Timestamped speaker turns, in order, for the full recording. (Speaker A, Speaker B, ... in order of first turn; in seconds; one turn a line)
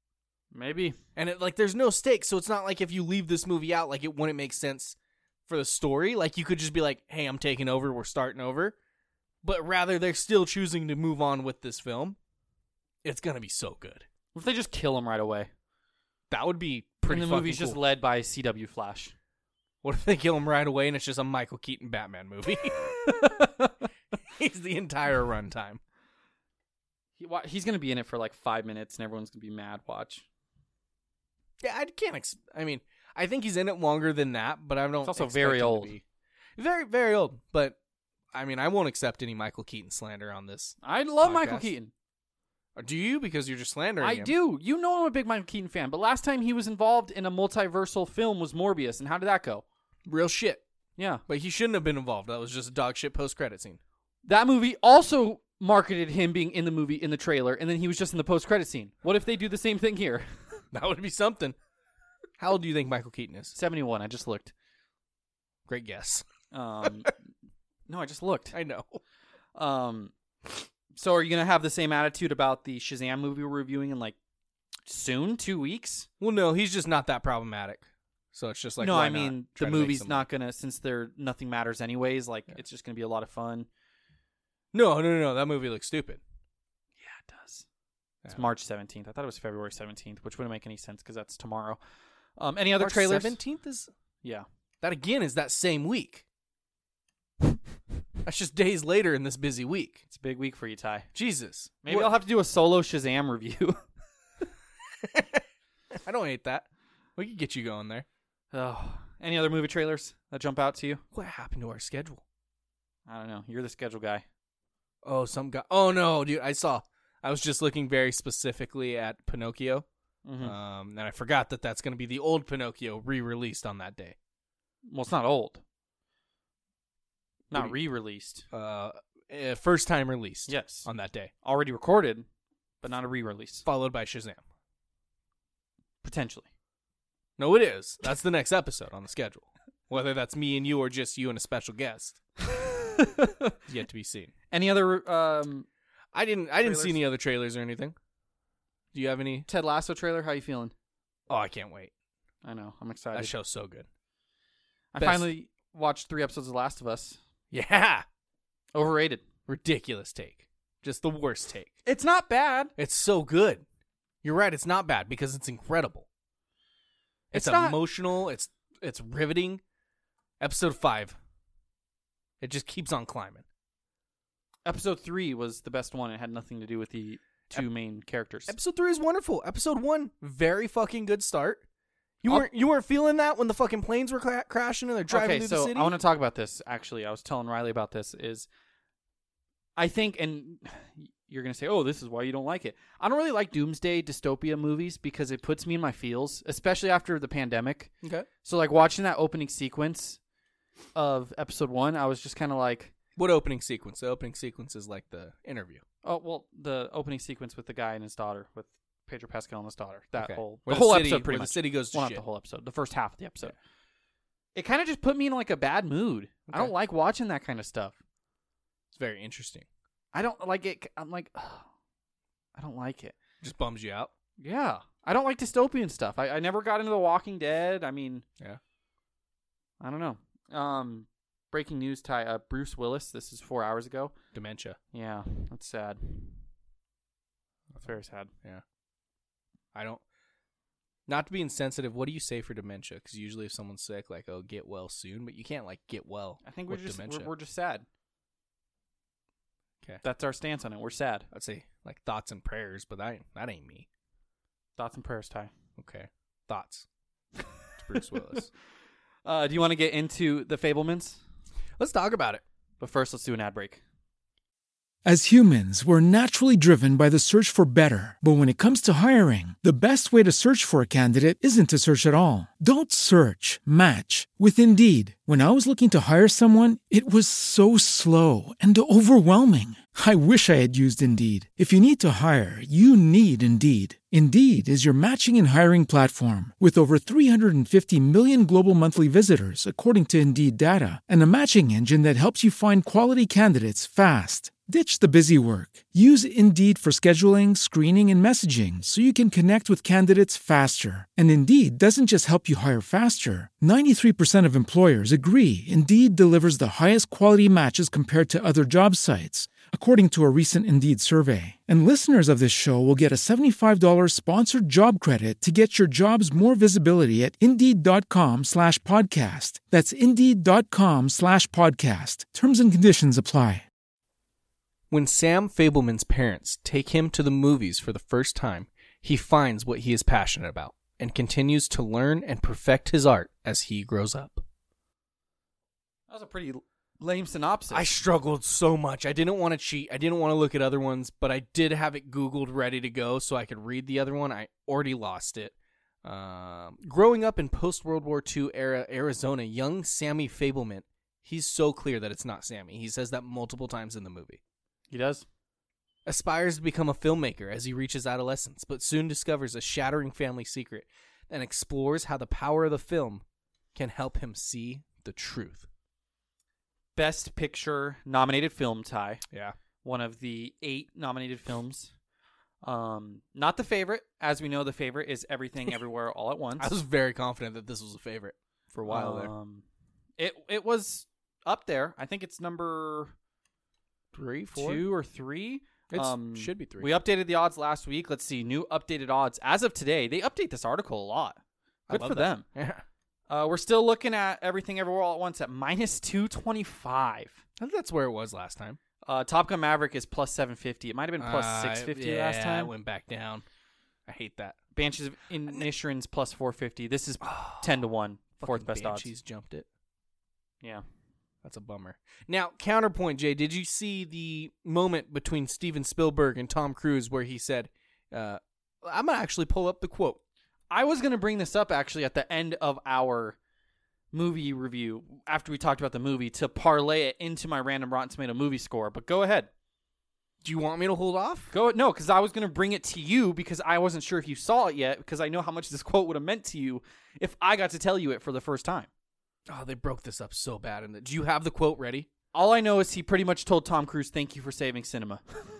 Speaker A: 0.5-1.0
Speaker B: 1.1-5.0
Speaker B: 5.5-8.7
Speaker B: 9.4-12.2
Speaker B: 13.0-14.1
Speaker A: 14.3-15.5
Speaker B: 16.3-17.8
Speaker A: 17.1-19.1
Speaker B: 19.8-23.4
Speaker A: 23.1-23.7
Speaker B: 24.3-25.8
Speaker A: 27.2-30.2
Speaker B: 31.6-36.0
Speaker A: 35.0-35.9
Speaker B: 36.6-37.8
Speaker B: 38.3-41.7
Speaker A: 40.8-41.9
Speaker B: 42.8-44.3
Speaker A: 44.0-49.6
Speaker B: 50.1-50.6
Speaker A: 51.0-51.2
Speaker B: 51.3-53.8
Speaker A: 54.2-60.3
Speaker B: 60.7-61.6
Speaker B: 62.4-63.5
Speaker A: 63.5-64.5
Speaker B: 65.7-66.2
Speaker A: 66.5-67.1
Speaker A: 67.9-68.6
Speaker B: 68.5-69.0
Speaker A: 69.5-70.1
Speaker A: 70.9-74.2
Speaker A: 74.9-76.1
Speaker B: 76.2-80.2
Speaker A: 78.8-83.7
Speaker B: 84.7-86.2
Speaker A: 87.0-87.6
Speaker A: 88.3-91.8
Speaker A: 92.4-93.4
Speaker B: 92.8-93.9
Speaker B: 94.8-96.2
Speaker B: 98.2-100.0
Speaker A: 100.1-101.1
Speaker B: 101.1-102.2
Speaker A: 101.8-103.8
Speaker B: 105.0-105.4
Speaker B: 105.9-108.1
Speaker A: 108.5-111.0
Speaker B: 111.1-112.2
Speaker A: 113.1-114.2
Speaker B: 115.0-119.9
Speaker A: 120.2-120.5
Speaker B: 120.4-124.1
Speaker A: 124.9-125.6
Speaker A: 127.5-128.4
Speaker B: 128.5-131.3
Speaker A: 130.5-130.9
Speaker A: 131.4-132.2
Speaker A: 132.8-133.6
Speaker B: 133.6-134.4
Speaker A: 136.0-136.4
Speaker B: 137.4-142.2
Speaker A: 142.6-143.5
Speaker B: 143.7-144.3
Speaker A: 144.5-145.7
Speaker B: 146.1-147.9
Speaker A: 146.6-147.0
Speaker B: 148.9-149.5
Speaker A: 149.5-150.7
Speaker B: 151.3-151.9
Speaker A: 152.4-153.3
Speaker B: 153.1-153.9
Speaker A: 154.9-157.2
Speaker B: 155.0-155.3
Speaker B: 157.5-158.1
Speaker A: 158.7-159.2
Speaker B: 159.5-161.8
Speaker A: 161.9-162.7
Speaker B: 162.8-163.6
Speaker B: 164.2-166.1
Speaker A: 167.3-167.8
Speaker B: 167.3-169.6
Speaker B: 170.4-171.2
Speaker B: 172.4-173.4
Speaker A: 174.6-178.6
Speaker B: 178.5-181.6
Speaker B: 182.2-185.9
Speaker A: 185.1-188.5
Speaker A: 189.8-197.9
Speaker A: 198.4-200.2
Speaker A: 200.9-202.9
Speaker B: 203.2-205.8
Speaker A: 206.0-213.5
Speaker B: 210.2-212.2
Speaker A: 214.6-217.9
Speaker B: 216.5-216.7
Speaker B: 218.9-219.7
Speaker A: 220.1-221.7
Speaker A: 222.6-223.1
Speaker B: 223.4-224.1
Speaker A: 224.4-228.2
Speaker A: 229.8-234.1
Speaker B: 234.3-234.8
Speaker A: 234.9-236.4
Speaker A: 237.8-238.3
Speaker B: 239.7-240.0
Speaker B: 241.1-247.3
Speaker A: 246.4-247.9
Speaker A: 250.0-251.3
Speaker B: 251.3-253.9
Speaker A: 254.8-255.5
Speaker B: 255.8-256.9
Speaker B: 257.8-258.5
Speaker A: 259.2-261.2
Speaker B: 261.8-262.4
Speaker A: 262.8-263.8
Speaker C: 265.1-323.6
Speaker B: 324.9-334.4
Speaker A: 336.1-337.9
Speaker B: 337.7-354.4
Speaker A: 354.9-355.2
Speaker B: 356.1-363.2
Speaker B: 363.7-365.7
Speaker A: 366.9-369.2
Speaker A: 369.8-371.9
Speaker A: 372.6-376.7
Speaker B: 376.6-379.3
Speaker A: 378.8-379.6
Speaker A: 380.2-383.1
Speaker B: 384.1-384.8
Speaker A: 384.6-391.4
Speaker B: 385.9-386.9
Speaker B: 391.9-392.8
Speaker A: 391.9-392.4
Speaker A: 393.3-397.4
Speaker B: 397.6-398.8
Speaker A: 399.1-402.7
Speaker B: 401.2-403.4
Speaker B: 404.1-404.6
Speaker A: 404.7-409.1
Speaker B: 407.2-407.8
Speaker B: 408.4-409.6
Speaker B: 411.4-420.2
Speaker A: 420.7-423.4
Speaker A: 424.1-429.5
Speaker B: 430.4-431.5
Speaker A: 431.5-438.9
Speaker B: 439.5-442.1
Speaker A: 442.3-445.2